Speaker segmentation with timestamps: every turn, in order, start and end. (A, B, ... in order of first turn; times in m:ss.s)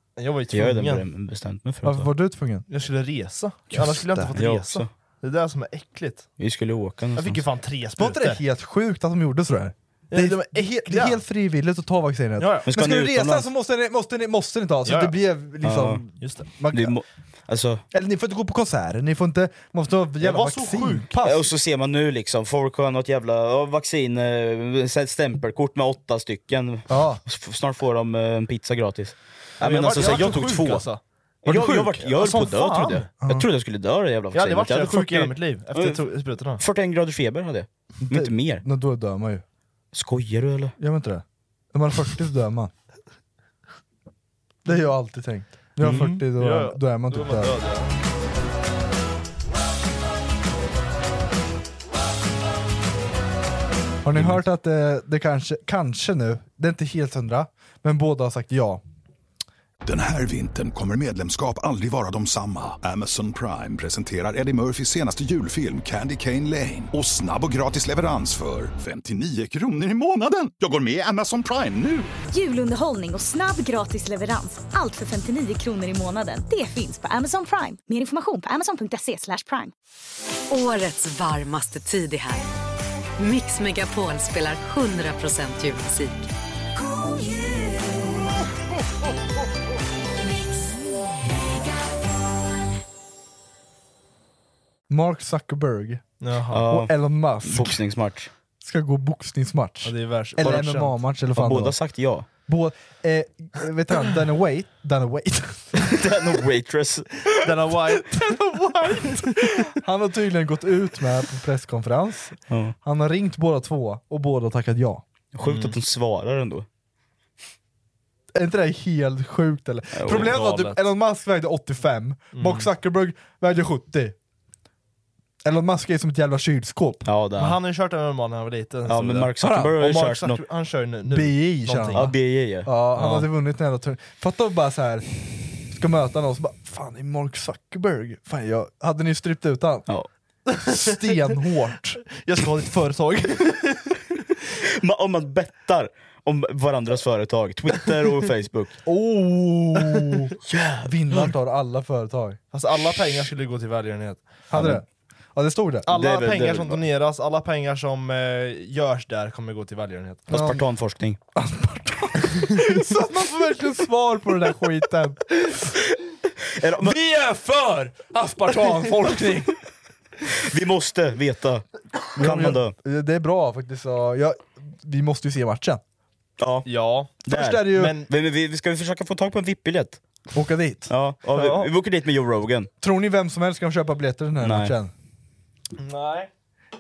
0:00.2-0:01.0 A
0:00.5-0:02.1 B
0:01.8-0:02.7 C
0:02.7-0:06.3 A
0:03.7-0:04.3 C
0:04.4-0:04.9 B
0:06.4-0:07.4 B
0:07.2-0:08.4 A
0:08.0-0:17.0 C
0:10.1-0:11.2 A
0:12.4-0:12.7 A
0:12.7-0:13.5 B
0:14.9-0:15.2 A
0:15.6-0:16.0 B
0:16.7-0:17.8 B
0:17.9-0:21.5 C
0:20.2-0:21.1 A
0:21.2-0:30.9 B
0:26.9-0:27.2 C
0:29.6-0:33.1 A
0:31.4-0:36.0 B
0:31.5-0:31.8 C
0:33.2-0:33.5 C
0:34.3-0:36.6 A
0:36.6-0:38.6 B
0:38.0-0:39.4 C
0:39.9-0:40.8 B
0:40.8-0:42.7 C
0:44.6-0:47.6 C
0:45.8-0:46.1 B
0:45.8-0:48.0 A
0:54.0-0:58.8 C
0:59.8-1:12.1 D
1:12.3-1:19.7 E
1:20.5-1:22.5 F
1:23.2-1:26.3 F
1:34.9-1:36.0 C
1:36.2-1:36.6 A
1:36.5-1:36.9 B
1:36.7-1:37.8 C
1:37.4-1:38.3 B
1:38.6-1:41.8 C
1:39.8-1:40.9 A
1:41.4-1:42.3 B
1:42.5-1:45.8 C
1:45.9-1:47.3 B
1:47.4-1:48.3 A
1:48.1-1:55.0 C
1:52.5-1:52.8 B
1:55.3-1:56.7 B
1:55.4-1:55.8 A
1:58.4-2:04.2 C
2:00.0-2:00.3 B
2:00.1-2:00.8 A
2:02.3-2:02.7 A
2:05.4-2:07.0 C
2:07.0-2:07.6 B
2:07.4-2:12.1 A
2:08.9-2:10.4 B
2:09.4-2:09.8 C
2:11.1-2:15.1 C
2:11.9-2:13.2 B
2:15.7-2:19.9 C
2:20.6-2:20.9 A
2:20.7-2:22.0 C
2:22.2-2:24.0 A
2:24.8-2:28.8 B
2:28.9-2:32.4 C
2:30.5-2:31.3 B
2:32.5-2:34.2 A
2:34.5-2:35.9 C
2:34.6-2:34.8 B
2:35.9-2:40.3 A
2:35.9-2:36.8 B
2:40.3-2:41.2 B
2:40.3-2:40.6 C
2:41.4-2:45.7 C
2:46.6-2:47.0 B
2:46.8-2:49.6 C
2:50.4-2:52.7 B
2:52.2-2:55.8 C
2:56.4-2:56.7 B
2:56.7-2:57.2 A
2:57.2-3:00.0 B
2:57.3-2:58.0 C
2:57.7-2:58.1 A
3:00.3-3:00.9 C
3:00.9-3:02.7 B
3:01.3-3:01.7 A
3:02.8-3:04.9 C
3:04.4-3:04.8 B
3:05.8-3:06.3 A